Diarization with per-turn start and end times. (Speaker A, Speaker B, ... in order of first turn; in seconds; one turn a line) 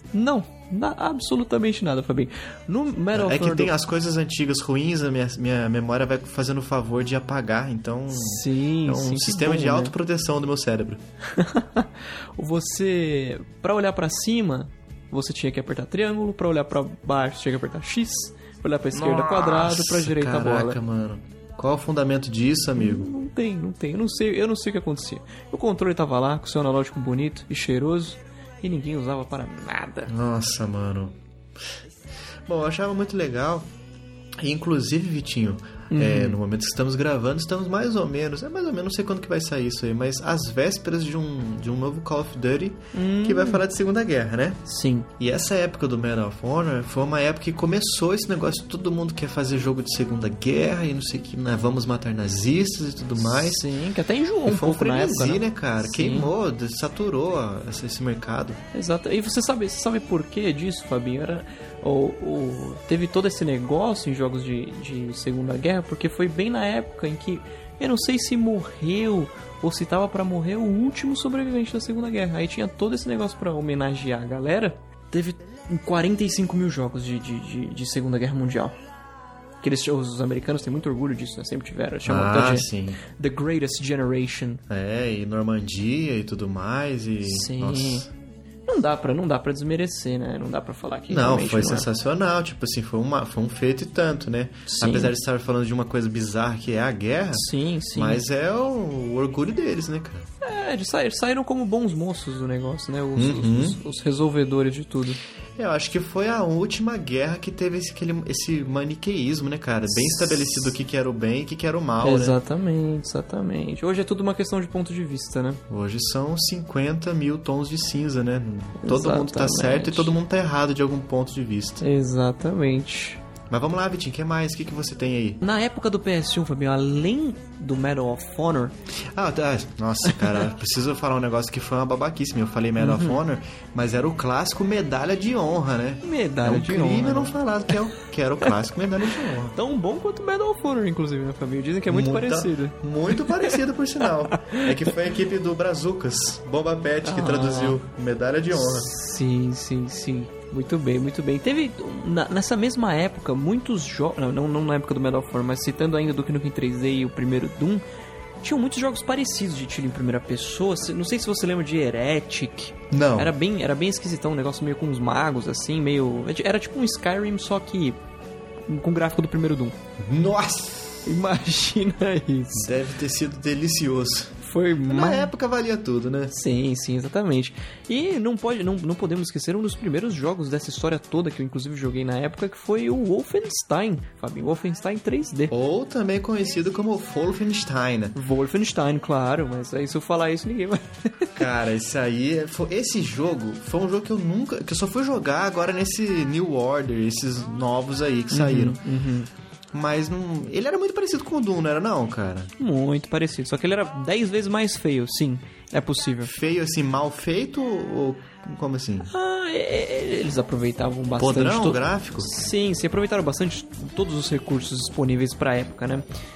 Speaker A: 0.1-3.7
Speaker B: 3.1-11.0
Speaker A: 8.1-9.9
Speaker A: 11.3-20.8
Speaker B: 18.9-23.1
Speaker A: 22.8-30.1
Speaker B: 30.1-31.2
Speaker B: 32.5-33.7
Speaker B: 34.4-44.7
Speaker A: 35.9-36.4
Speaker A: 42.9-43.6
Speaker A: 44.7-45.1
Speaker B: 45.2-53.7
Speaker A: 53.2-56.3
Speaker B: 54.5-58.6
Speaker A: 58.7-78.8
Speaker A: 79.6-84.6
Speaker B: 82.0-83.0
Speaker B: 84.7-88.1
Speaker A: 87.2-88.1
Speaker A: 88.7-91.9
Speaker B: 91.1-100.3
Speaker A: 94.7-95.1
Speaker A: 97.3-98.2
Speaker A: 100.4-105.2
Speaker B: 103.1-103.8
Speaker B: 105.6-112.4
Speaker A: 110.0-110.7
Speaker A: 112.0-115.6
Speaker B: 115.7-121.8
Speaker A: 118.8-120.1
Speaker A: 121.8-123.2
Speaker B: 123.5-125.4
Speaker A: 125.4-128.7
Speaker B: 129.1-139.6
Speaker A: 132.8-133.2
Speaker A: 136.0-137.4
Speaker A: 139.5-143.6
Speaker B: 141.9-148.9
Speaker A: 144.4-144.7
Speaker A: 147.0-147.8
Speaker A: 148.5-157.8
Speaker A: 158.4-168.0
Speaker B: 162.9-163.3
Speaker A: 168.7-169.8
Speaker B: 170.0-171.1
Speaker A: 171.1-172.7
Speaker B: 172.6-176.3
Speaker A: 174.4-175.3
Speaker A: 176.3-185.5
Speaker B: 185.5-188.2
Speaker A: 188.1-191.4
Speaker B: 191.4-198.8
Speaker A: 198.3-199.3
Speaker B: 199.7-202.5
Speaker A: 202.6-206.3
Speaker B: 206.2-209.1
Speaker A: 209.1-216.1
Speaker B: 211.2-212.3